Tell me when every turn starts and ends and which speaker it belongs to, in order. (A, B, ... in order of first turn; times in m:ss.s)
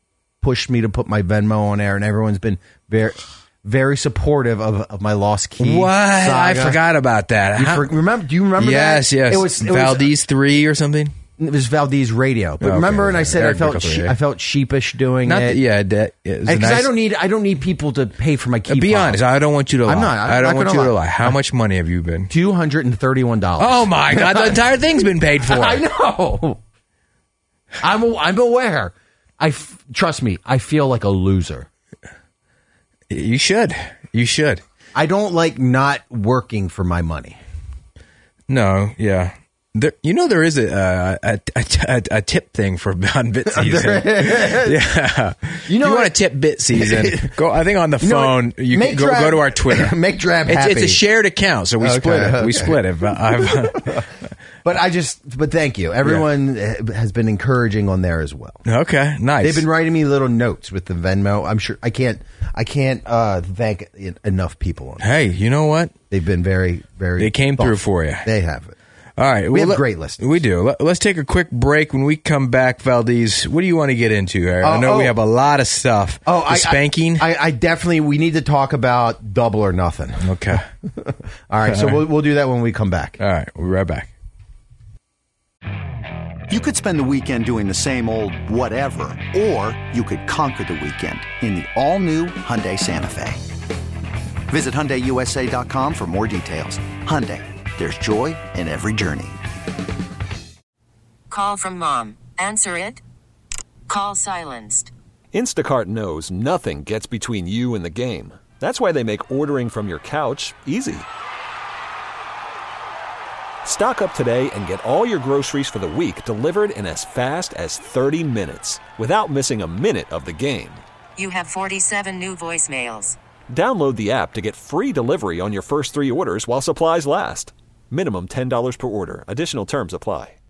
0:00.4-0:06.8 A
0:05.6-0:07.9 B
0:07.6-0:10.1 A
0:08.6-0:11.1 B
0:11.4-0:15.6 A
0:12.6-0:14.2 B
0:15.2-0:16.9 B
0:16.5-0:19.2 A
0:18.7-0:22.3 B
0:19.9-0:21.4 A
0:22.3-0:24.7 A
0:23.6-0:25.8 B
0:25.4-0:26.6 A
0:27.8-0:31.7 A
0:33.1-0:34.6 B
0:35.0-0:37.4 A
0:38.5-0:50.0 B
0:43.5-0:44.8 A
0:45.7-0:46.2 A
0:46.7-0:47.3 A
0:48.0-0:51.0 A
0:50.5-0:54.0 B
0:51.8-0:54.1 A
0:54.6-0:58.6 A
0:58.6-0:59.7 B
0:59.4-1:05.0 A
1:05.0-1:05.9 B
1:06.1-1:08.8 A
1:07.2-1:08.3 B
1:09.2-1:17.3 B
1:09.5-1:10.2 A
1:14.6-1:15.2 A
1:16.3-1:23.2 A
1:20.2-1:20.7 B
1:21.7-1:22.0 B
1:23.2-1:24.1 B
1:26.5-1:33.4 C
1:34.5-1:39.4 C
1:41.3-1:43.0 D
1:43.9-1:44.9 D
1:45.3-1:51.1 E
1:53.6-2:00.8 E
2:01.2-2:03.2 D
2:03.5-2:10.4 E